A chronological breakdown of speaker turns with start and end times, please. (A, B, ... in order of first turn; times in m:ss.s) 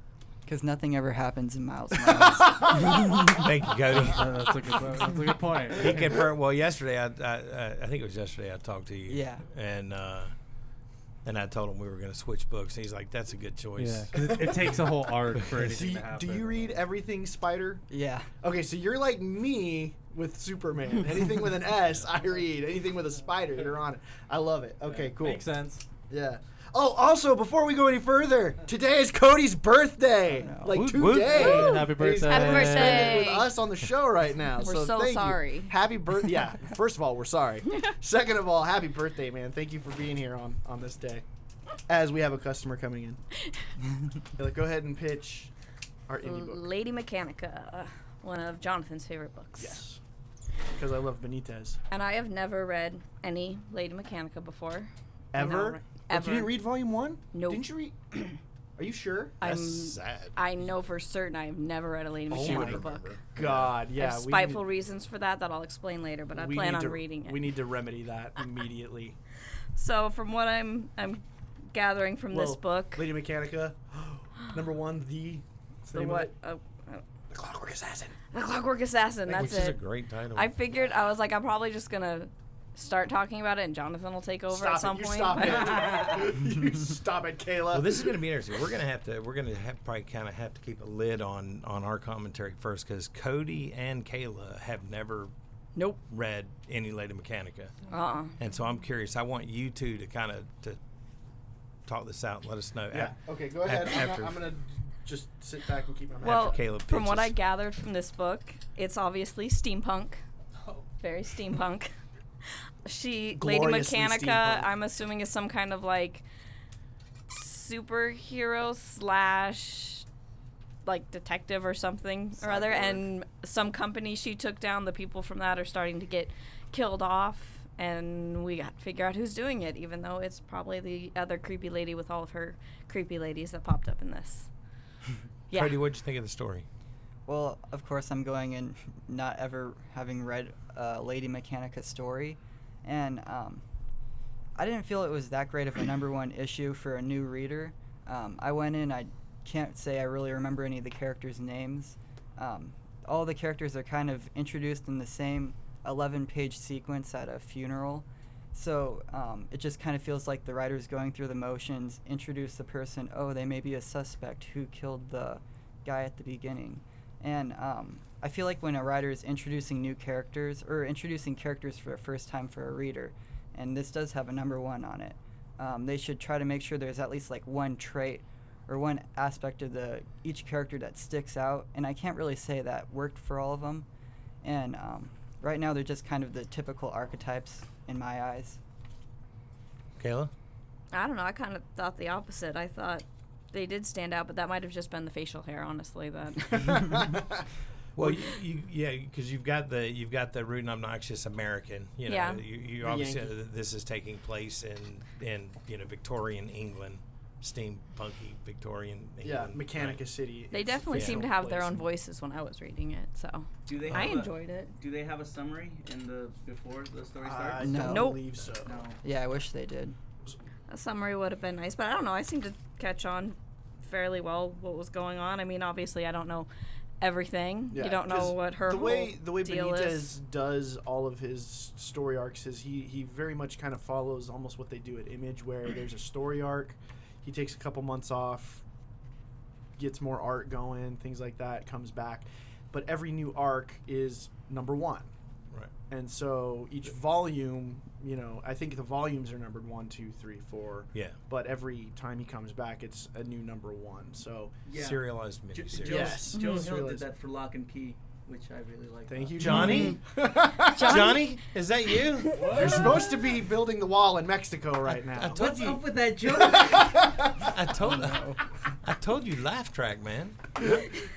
0:00.4-0:03.4 A
0:02.1-0:03.4 B
0:03.2-0:04.3 C
0:04.0-0:06.2 D
0:05.8-0:10.3 C
0:09.1-0:09.4 A
0:11.2-0:14.4 C
0:13.8-0:16.8 D
0:14.1-0:14.8 B
0:15.5-0:17.8 B
0:17.9-0:18.3 A
0:18.4-0:25.4 B
0:24.8-0:25.8 D
0:26.1-0:41.2 B
0:30.4-0:30.8 A
0:30.7-0:31.5 C
0:31.1-0:33.3 D
0:31.4-0:33.5 E
0:34.6-0:35.7 E
0:41.9-0:43.2 B
0:44.3-0:45.5 B
0:46.1-0:46.6 B
0:46.2-0:49.8 E
0:49.6-0:50.0 B
0:50.7-0:51.8 B
0:51.9-0:56.6 E
0:55.3-0:57.9 B
0:57.3-0:57.6 E
0:58.8-0:59.4 B
0:59.4-1:00.4 C
0:59.4-1:03.1 E
1:02.3-1:03.8 C
1:02.3-1:04.6 B
1:04.0-1:07.4 E
1:06.3-1:09.2 B
1:09.7-1:13.1 E
1:12.3-1:16.3 B
1:15.9-1:17.0 E
1:17.3-1:18.2 B
1:18.3-1:26.3 E
1:19.2-1:20.5 C
1:24.5-1:28.2 B
1:27.7-1:35.3 C
1:35.7-1:36.0 E
1:36.1-1:37.7 C
1:37.9-1:38.4 E
1:38.4-1:40.8 C
1:41.8-1:44.4 C
1:42.9-1:46.6 B
1:46.2-1:47.3 C
1:46.2-1:50.2 E
1:51.0-1:51.9 E
1:52.4-1:56.2 E
1:53.3-1:54.7 B
1:57.3-2:00.0 E
2:00.8-2:14.5 E
2:02.4-2:03.0 B
2:15.5-2:15.8 E
2:15.5-2:16.6 C
2:17.3-2:23.6 A
2:24.6-3:03.9 A
3:04.4-3:08.6 A
3:10.0-3:10.3 C
3:10.9-3:17.2 E
3:16.6-3:17.2 B
3:18.0-3:30.0 C
3:22.1-3:22.4 E
3:22.8-3:23.3 B
3:29.2-3:31.9 B
3:30.5-3:34.7 E
3:30.9-3:31.2 C
3:33.7-3:39.0 F
3:33.9-3:34.2 C
3:37.2-3:38.8 B
3:37.6-3:38.2 A
3:37.8-3:38.2 E
3:39.0-3:40.0 A
3:40.7-3:46.5 E
3:47.0-3:50.1 E
3:47.7-3:58.6 B
3:59.8-4:05.1 B
4:05.9-4:14.5 B
4:14.6-4:19.9 F
4:14.8-4:16.2 C
4:15.8-4:17.0 B
4:16.3-4:16.7 E
4:19.1-4:21.1 B
4:19.4-4:20.0 C
4:19.5-4:20.0 E
4:20.7-4:21.4 E
4:20.8-4:22.4 C
4:22.3-4:23.1 F
4:22.6-4:27.5 B
4:25.1-4:25.6 C
4:25.3-4:27.1 F
4:27.4-4:30.5 C
4:30.6-4:30.9 B